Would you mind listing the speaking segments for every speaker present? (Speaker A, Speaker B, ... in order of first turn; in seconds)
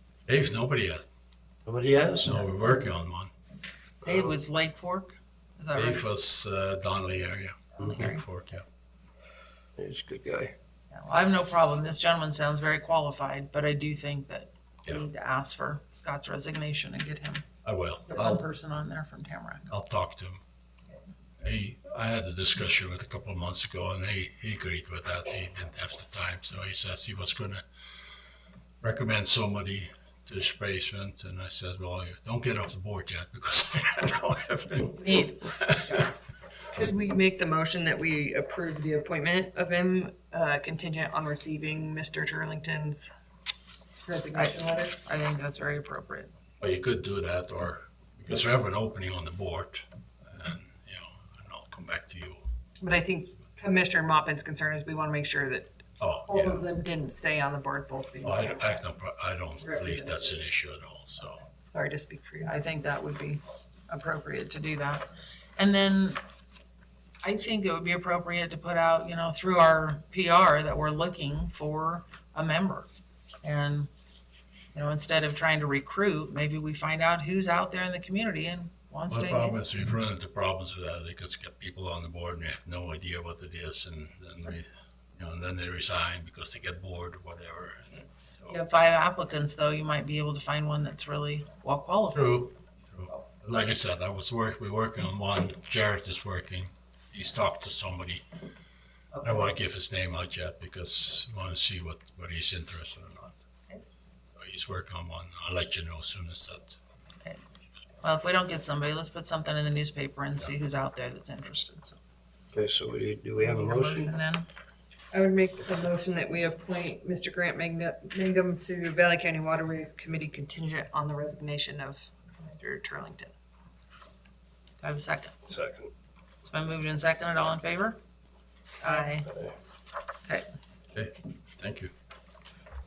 Speaker A: 0.3-1.0, 2.2-3.3, 5.7-8.7, 17.6-18.5, 19.7-20.4, 21.4-27.6, 28.8-36.1, 46.6-52.4, 56.0-56.7, 58.2-61.4, 79.1-88.6, 92.1-98.2, 99.2-103.4, 104.3-106.8, 130.9-131.9
Speaker B: 1.7-2.4, 9.8-10.5, 112.5-114.1, 125.5-125.9
Speaker C: 4.0-6.1, 7.8-8.2, 10.9-17.5, 18.1-19.7, 35.0-35.4, 44.3-46.3, 62.5-66.2, 67.2-72.9, 73.4-73.9, 74.7-79.6, 88.5-92.5, 108.0-112.0, 113.4-114.5, 124.8-125.4, 126.4-128.0, 128.8-129.3
Speaker D: 36.7-43.1, 44.0-45.0, 52.8-55.7, 56.3-58.8, 59.6-60.3, 61.7-62.6, 115.1-123.3